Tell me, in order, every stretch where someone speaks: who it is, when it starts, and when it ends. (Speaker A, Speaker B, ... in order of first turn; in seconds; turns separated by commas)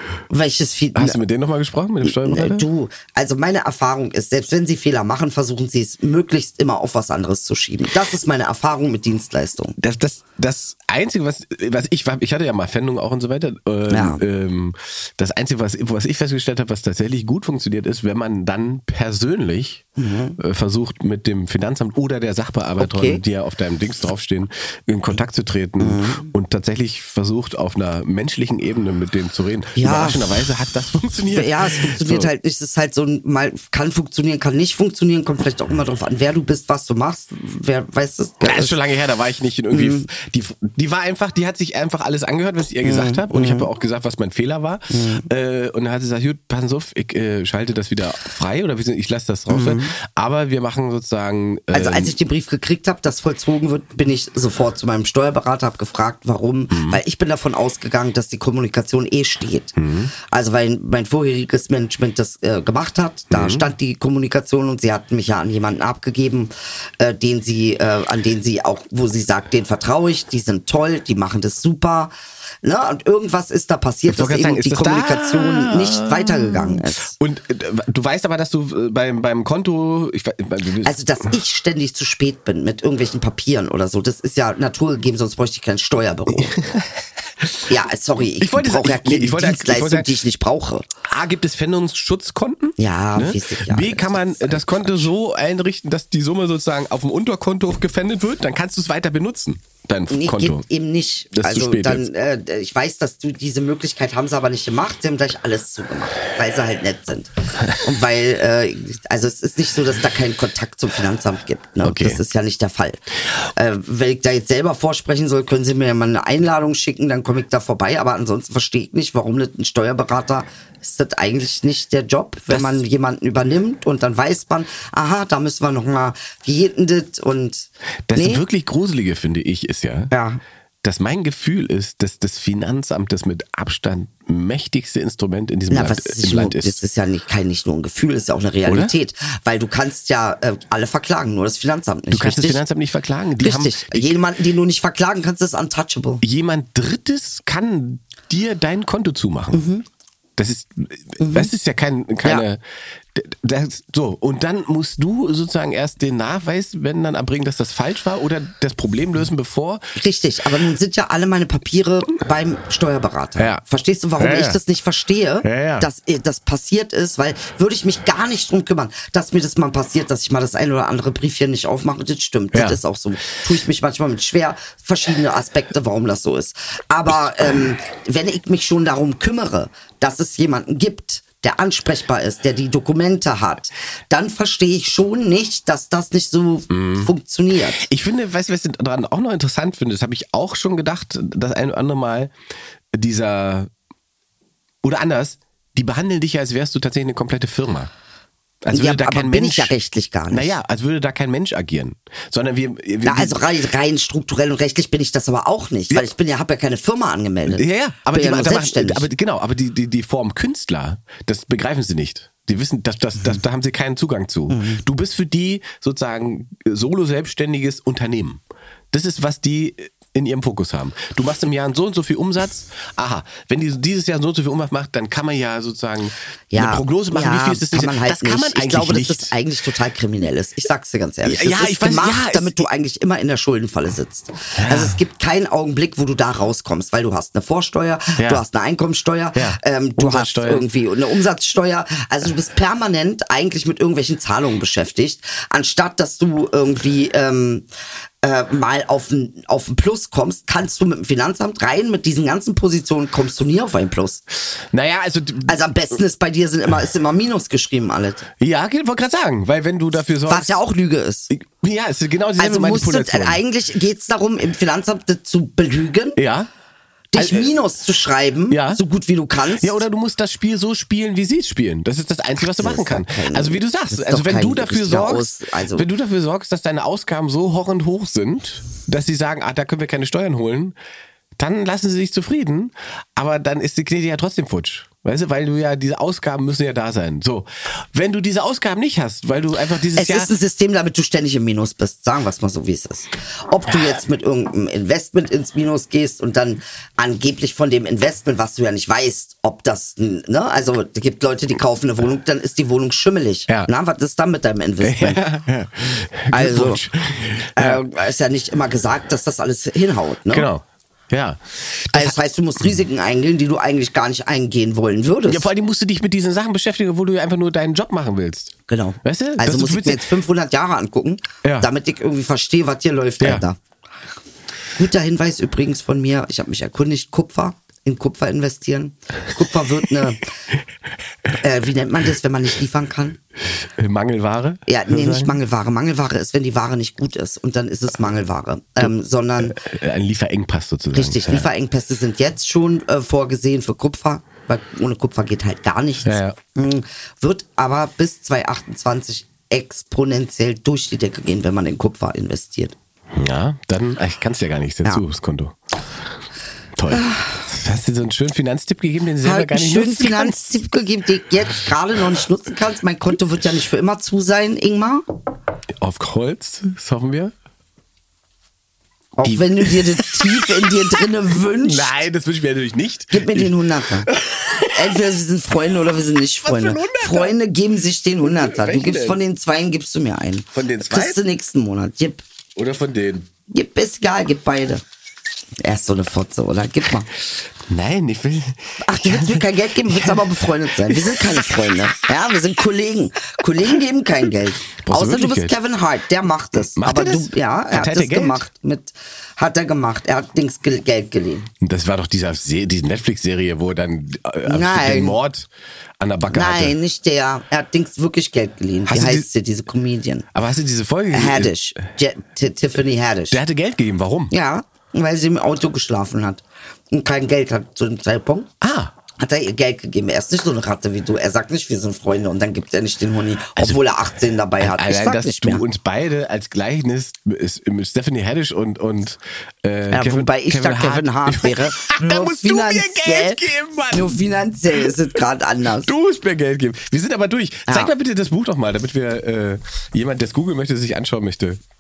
Speaker A: 0.3-1.2, Speaker B: 0.9-2.7, Speaker A: 2.0-9.8, Speaker B: 9.8-19.9, Speaker A: 13.9-14.2, Speaker A: 20.0-20.4, Speaker B: 20.4-32.3, Speaker A: 22.8-23.2, Speaker A: 25.8-26.3, Speaker A: 29.8-30.2, Speaker A: 31.3-38.8, Speaker B: 38.4-52.1, Speaker A: 39.7-40.1, Speaker A: 42.8-43.7, Speaker A: 44.9-45.3, Speaker A: 49.5-49.9, Speaker A: 51.7-59.8, Speaker B: 56.7-57.0, Speaker B: 59.8-60.1, Speaker A: 60.3-72.1, Speaker B: 63.3-63.7, Speaker A: 72.6-77.1, Speaker B: 74.1-81.0, Speaker A: 80.8-86.7, Speaker B: 86.4-86.9, Speaker A: 87.7-90.9, Speaker B: 88.4-90.2, Speaker B: 91.1-100.7, Speaker A: 92.8-95.1, Speaker A: 100.1-128.4, Speaker B: 101.3-102.1, Speaker B: 111.8-112.2, Speaker B: 122.5-122.8, Speaker B: 128.1-130.1, Speaker A: 130.1-130.4, Speaker B: 130.8-136.8, Speaker A: 135.7-142.6, Speaker B: 138.7-138.9, Speaker B: 142.1-144.2, Speaker A: 143.4-146.2, Speaker B: 146.2-149.7, Speaker A: 149.5-149.8, Speaker B: 150.4-152.6, Speaker A: 151.2-151.5, Speaker B: 153.1-159.8, Speaker A: 160.0-187.9, Speaker B: 164.2-164.6, Speaker B: 165.4-165.9, Speaker B: 172.5-172.8, Speaker B: 186.7-187.1, Speaker B: 187.8-192.3, Speaker B: 192.9-193.7, Speaker B: 194.8-197.9, Speaker B: 198.6-199.7, Speaker A: 198.7-200.6, Speaker B: 200.3-203.4, Speaker A: 203.1-209.1, Speaker B: 207.5-229.3, Speaker A: 214.5-214.8, Speaker A: 226.5-247.7, Speaker B: 231.2-232.7, Speaker B: 234.6-235.0, Speaker B: 238.2-238.4, Speaker B: 239.4-240.7, Speaker A: 248.2-254.2, Speaker B: 254.7-255.6, Speaker A: 255.5-258.3, Speaker B: 258.4-260.6, Speaker A: 260.3-261.3, Speaker B: 261.3-263.4, Speaker A: 262.4-266.2, Speaker B: 266.2-266.5, Speaker A: 267.1-269.9, Speaker B: 267.1-267.5, Speaker B: 268.5-268.8, Speaker B: 269.6-280.8, Speaker A: 272.6-275.9, Speaker B: 281.4-290.3, Speaker A: 290.0-305.2, Speaker B: 304.8-307.8, Speaker A: 306.3-306.8, Speaker A: 307.6-310.5, Speaker B: 310.3-312.2, Speaker A: 311.9-315.5, Speaker B: 315.3-320.0, Speaker A: 318.7-323.6, Speaker B: 321.4-321.7, Speaker A: 324.8-330.3, Speaker A: 331.4-333.2, Speaker B: 333.6-335.4, Speaker A: 334.7-339.6, Speaker B: 339.4-341.5, Speaker A: 340.9-352.8, Speaker B: 346.1-346.4, Speaker B: 353.1-355.6, Speaker B: 356.8-360.6, Speaker A: 356.9-357.4, Speaker A: 359.2-365.0, Speaker B: 365.8-367.3, Speaker A: 369.2-371.9, Speaker B: 369.2-375.0, Speaker A: 373.1-374.1, Speaker A: 374.7-382.2, Speaker B: 376.4-377.4, Speaker B: 378.2-379.2, Speaker B: 380.5-381.2, Speaker B: 382.6-383.3, Speaker A: 383.5-384.8, Speaker A: 385.6-387.1, Speaker B: 387.7-390.2, Speaker A: 388.8-401.5, Speaker B: 390.9-391.4, Speaker B: 394.8-395.5, Speaker B: 396.7-398.5, Speaker B: 401.6-405.5, Speaker A: 404.5-405.2, Speaker B: 406.0-406.8, Speaker A: 406.3-410.3, Speaker B: 408.9-409.3, Speaker B: 410.3-411.5, Speaker A: 411.1-413.4, Speaker B: 413.3-414.3, Speaker A: 414.3-418.5, Speaker B: 418.6-418.9, Speaker A: 419.2-425.6, Speaker B: 424.6-434.2, Speaker A: 429.9-435.9, Speaker B: 435.9-441.6